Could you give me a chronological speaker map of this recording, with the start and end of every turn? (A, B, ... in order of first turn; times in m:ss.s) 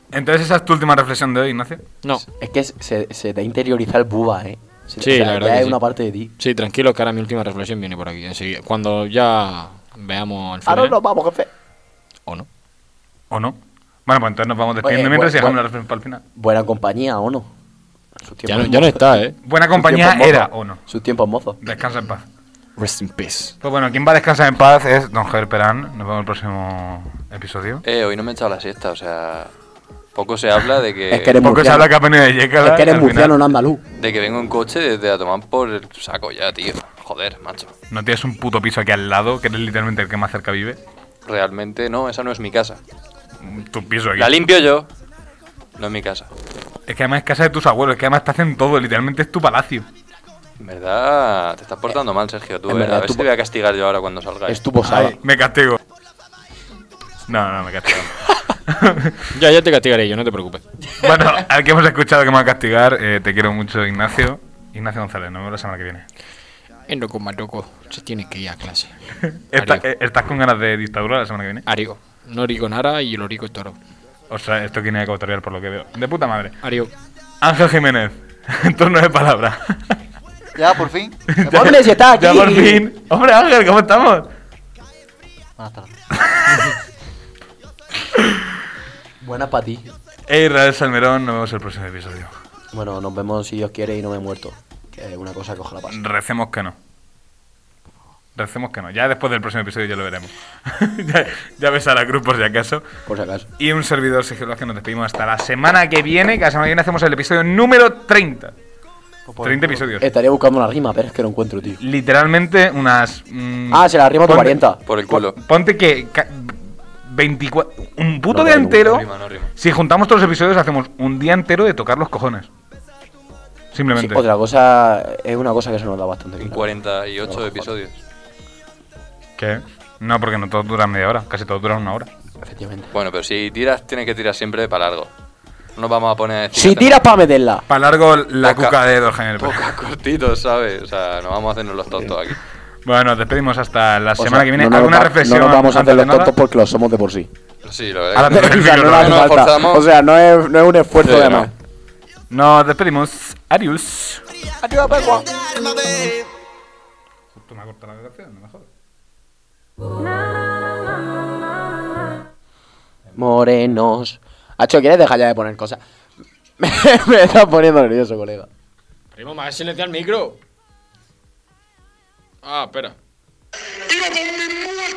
0:00.1-0:01.8 A
0:02.4-0:06.3 B
0:05.0-0:05.8 C
0:06.4-0:11.0 C
0:10.7-0:11.5 B
0:13.3-0:16.2 A
0:14.8-0:15.6 B
0:16.4-0:17.5 B
0:18.2-0:19.2 B
0:18.5-0:19.4 C
0:19.4-0:20.8 A
0:19.7-0:21.6 B
0:21.6-0:22.3 A
0:22.8-0:23.5 C
0:23.6-0:27.8 A
0:27.8-0:29.5 D
0:30.2-0:31.4 D
0:31.1-0:32.0 B
0:31.4-0:33.4 A
0:32.6-0:33.8 B
0:34.0-0:37.7 D
0:37.9-0:40.8 A
0:41.3-0:42.8 D
0:43.4-0:44.4 A
0:44.2-0:44.9 D
0:45.8-0:46.3 D
0:46.9-0:49.9 A
0:50.6-0:54.6 D
0:52.7-0:53.3 B
0:54.5-0:55.2 B
0:54.8-0:55.8 A
0:57.3-0:58.1 A
0:58.7-0:59.3 A
0:59.3-1:00.6 C
1:01.0-1:06.0 A
1:06.9-1:09.0 C
1:09.3-1:11.6 A
1:09.6-1:09.8 C
1:11.7-1:13.8 C
1:14.3-1:16.6 A
1:16.6-1:16.9 C
1:17.4-1:20.0 A
1:20.6-1:21.8 E
1:21.3-1:24.3 A
1:21.5-1:22.8 B
1:25.6-1:26.0 E
1:26.3-1:26.7 A
1:28.2-1:28.4 A
1:29.2-1:29.8 B
1:30.3-1:32.3 A
1:32.7-1:36.0 B
1:35.9-1:36.8 A
1:38.4-1:42.8 A
1:43.1-1:43.5 B
1:43.6-1:48.5 A
1:49.3-1:50.0 E
1:49.4-1:50.1 A
1:50.0-1:51.8 B
1:51.8-1:54.6 A
1:53.7-1:54.8 B
1:54.9-1:55.4 D
1:55.1-1:59.1 A
1:58.3-1:59.0 B
1:58.7-1:59.5 D
1:59.6-2:02.5 A
2:03.7-2:04.2 A
2:04.0-2:06.7 B
2:06.4-2:08.0 D
2:07.2-2:07.7 B
2:09.4-2:12.1 A
2:12.4-2:12.9 B
2:12.9-2:15.1 D
2:15.8-2:17.0 D
2:16.5-2:17.6 B
2:17.7-2:19.7 A
2:18.4-2:18.8 D
2:19.4-2:22.4 D
2:22.8-2:26.3 A
2:24.2-2:27.3 B
2:27.6-2:29.8 D
2:28.2-2:29.4 A
2:28.3-2:31.5 B
2:31.0-2:31.5 D
2:32.3-2:34.2 A
2:34.6-2:35.3 B
2:37.3-2:38.7 A
2:43.2-2:45.8 B
2:46.6-2:48.5 B
2:49.1-2:50.4 C
2:52.4-2:53.0 C